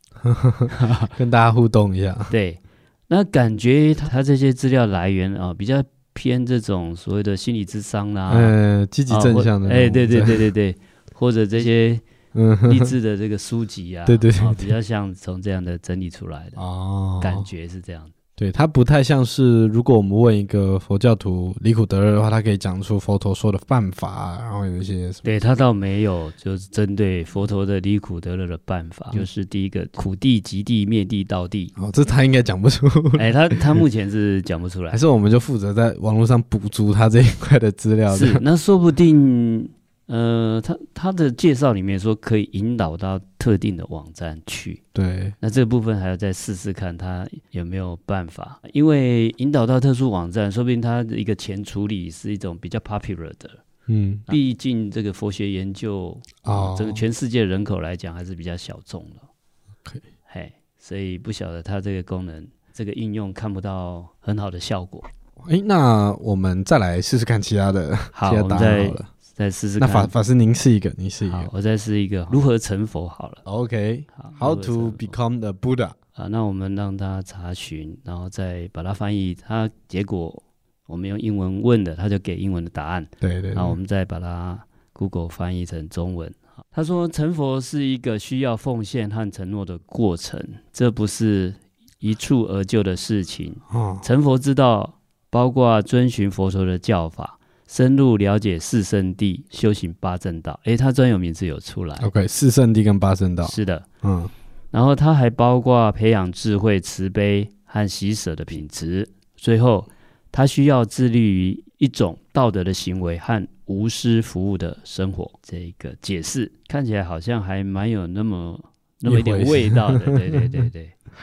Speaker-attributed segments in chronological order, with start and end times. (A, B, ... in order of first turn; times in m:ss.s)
0:00.2-0:02.3 A
0:00.7-0:01.1 B
0:02.3-0:08.5 B
0:08.3-0:10.5 A
0:09.1-0:12.0 B
0:12.3-0:12.9 A
0:12.6-0:16.6 B
0:14.1-0:14.7 A
0:16.6-0:17.4 A
0:17.2-0:18.1 B
0:18.4-0:25.2 A
0:25.2-0:31.7 B
0:31.8-0:33.8 A
0:33.1-0:35.0 B
0:34.9-0:38.4 A
0:38.1-0:44.8 B
0:44.9-0:45.3 A
0:45.4-0:53.6 B
0:53.9-0:54.3 A
0:54.3-0:59.3 B
0:56.4-0:57.0 A
1:00.3-1:05.0 B
1:05.4-1:09.1 A
1:08.1-1:10.1 B
1:09.8-1:11.5 A
1:11.2-1:13.4 B
1:13.4-1:16.0 A
1:14.2-1:15.1 B
1:16.1-1:42.1 B
1:23.2-1:23.8 A
1:33.7-1:34.0 A
1:42.0-1:44.3 A
1:43.4-1:43.8 B
1:44.7-2:00.9 B
1:59.1-2:00.5 A